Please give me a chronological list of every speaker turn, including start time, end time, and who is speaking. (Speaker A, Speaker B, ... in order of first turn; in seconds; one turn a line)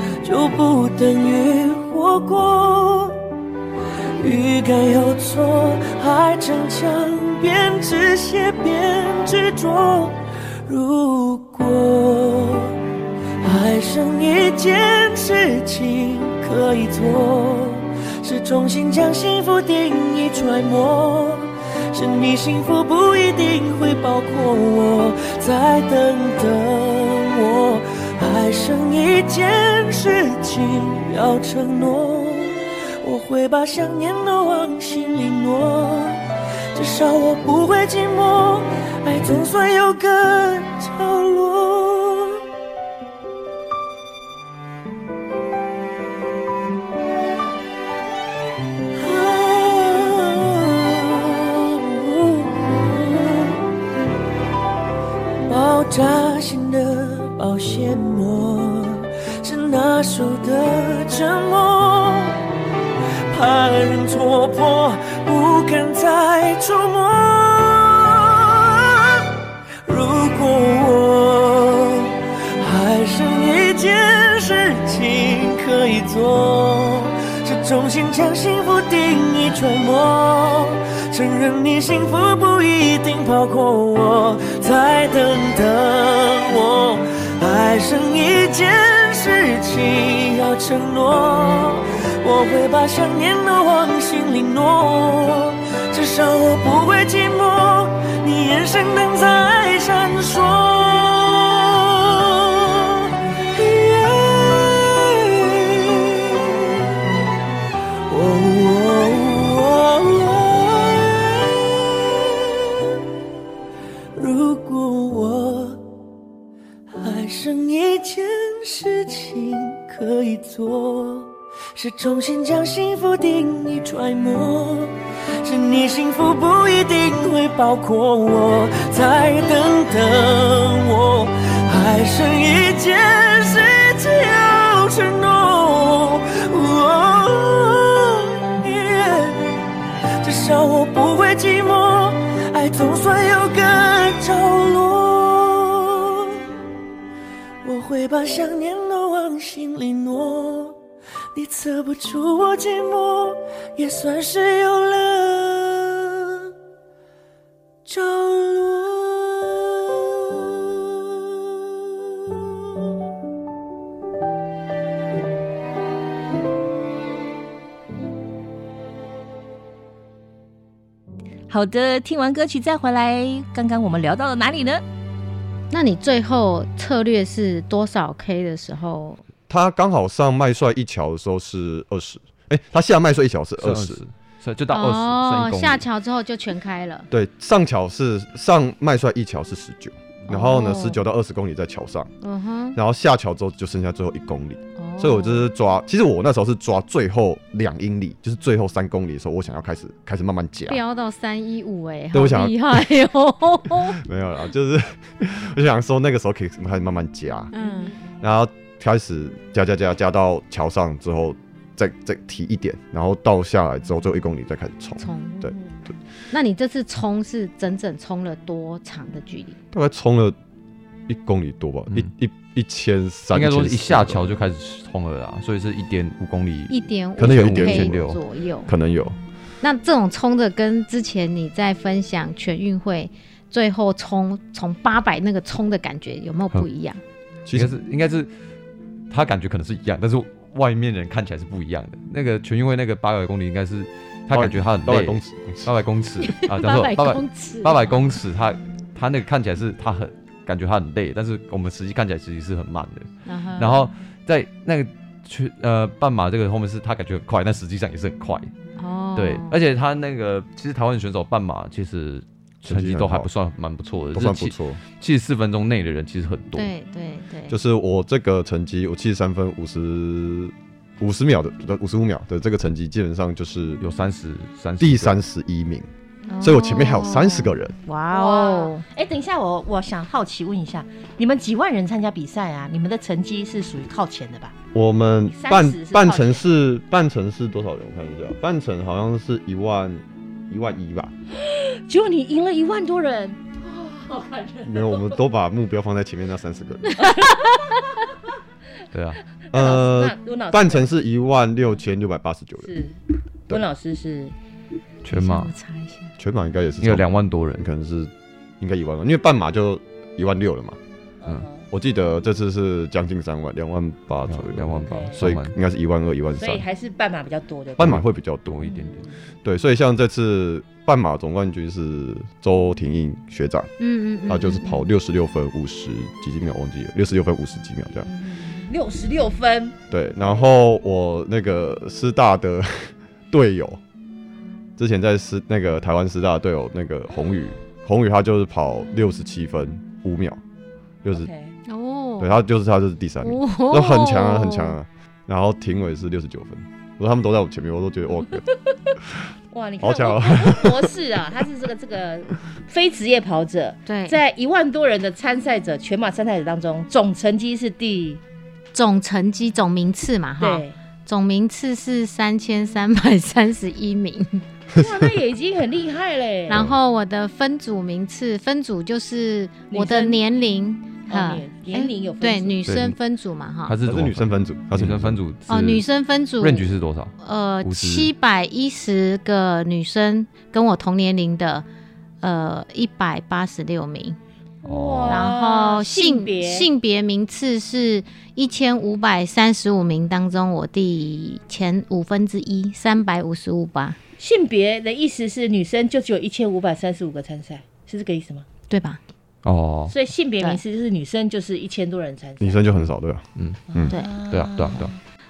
Speaker A: 0.2-3.2
Speaker A: 4.2-12.8
Speaker A: 13.4-36.2
Speaker A: 36.7-42.4
Speaker A: 48.9-53.6
Speaker A: 55.5-62.4
Speaker A: 63.3-69.3
Speaker A: 69.8-107.0
Speaker A: 108.1-112.7
Speaker A: 114.2-115.9
Speaker A: 116.9-139.6
Speaker A: 140.2-146.4
Speaker A: 147.6-150.8
Speaker A: 151.3-156.5
Speaker A: 157.9-161.4
Speaker B: 171.5-174.8
Speaker C: 175.7-179.2
Speaker D: 179.5-184.0
Speaker E: 183.6-185.8
Speaker C: 184.7-187.1
Speaker D: 187.1-192.1
Speaker C: 190.3-191.0
Speaker C: 192.2-192.8
Speaker D: 192.8-200.8
Speaker C: 194.8-195.5
Speaker C: 200.7-204.0
Speaker D: 202.1-203.0
Speaker D: 203.7-207.5
Speaker C: 207.5-207.9
Speaker D: 208.2-215.6
Speaker C: 215.0-215.4
Speaker C: 216.3-219.6
Speaker D: 219.7-220.4
Speaker D: 221.1-224.3
Speaker E: 223.3-228.2
Speaker C: 226.7-228.7
Speaker D: 227.2-228.1
Speaker D: 228.7-229.2
Speaker C: 229.6-237.0
Speaker D: 237.5-237.7
Speaker E: 237.5-238.3
Speaker E: 239.1-258.5
Speaker D: 244.3-245.7
Speaker C: 246.2-248.2
Speaker C: 253.3-253.9
Speaker C: 258.8-259.6
Speaker E: 259.2-266.7
Speaker D: 262.6-263.3
Speaker D: 264.1-264.8
Speaker C: 266.6-267.6
Speaker D: 267.5-273.8
Speaker E: 273.8-275.2
Speaker D: 274.8-275.9
Speaker C: 276.3-278.8
Speaker D: 276.4-277.8
Speaker B: 278.1-284.6
Speaker D: 284.7-291.1
Speaker B: 285.3-286.4
Speaker B: 291.4-295.2
Speaker D: 294.6-297.1
Speaker B: 297.0-297.8
Speaker E: 298.9-299.2
Speaker B: 299.4-300.9
Speaker D: 299.5-302.7
Speaker B: 302.6-304.4
Speaker E: 305.0-305.5
Speaker C: 305.1-306.1
Speaker D: 306.2-310.8
Speaker E: 306.8-307.6
Speaker B: 311.2-311.7
Speaker D: 311.7-316.6
Speaker E: 314.3-315.5
Speaker B: 314.9-315.2
Speaker B: 316.4-318.0
Speaker D: 317.8-318.6
Speaker E: 318.5-319.0
Speaker B: 318.8-319.1
Speaker D: 319.4-323.7
Speaker C: 323.8-324.9
Speaker D: 324.3-328.1
Speaker B: 328.1-330.4
Speaker D: 329.9-333.8
Speaker D: 334.8-340.4
Speaker D: 341.0-341.3
Speaker B: 341.1-341.5
Speaker C: 341.7-342.4
Speaker D: 342.2-348.5
Speaker C: 343.2-344.8
Speaker B: 349.5-358.2
Speaker D: 349.8-350.9
Speaker C: 353.9-354.2
Speaker C: 358.7-364.4
Speaker B: 360.4-360.8
Speaker D: 364.8-365.1
Speaker B: 364.8-366.6
Speaker C: 366.5-373.8
Speaker B: 369.7-370.2
Speaker B: 371.1-372.6
Speaker E: 372.7-373.0
Speaker E: 373.7-375.9
Speaker D: 373.8-375.2
Speaker C: 375.5-376.7
Speaker E: 376.4-377.1
Speaker C: 377.2-381.6
Speaker E: 377.6-378.1
Speaker C: 382.2-384.2
Speaker B: 384.6-386.7
Speaker E: 384.6-385.3
Speaker C: 385.1-394.0
Speaker B: 394.2-398.5
Speaker C: 398.7-399.0
Speaker E: 399.4-399.9
Speaker B: 399.9-402.7
Speaker D: 402.4-403.9
Speaker B: 403.7-405.0
Speaker E: 404.3-404.9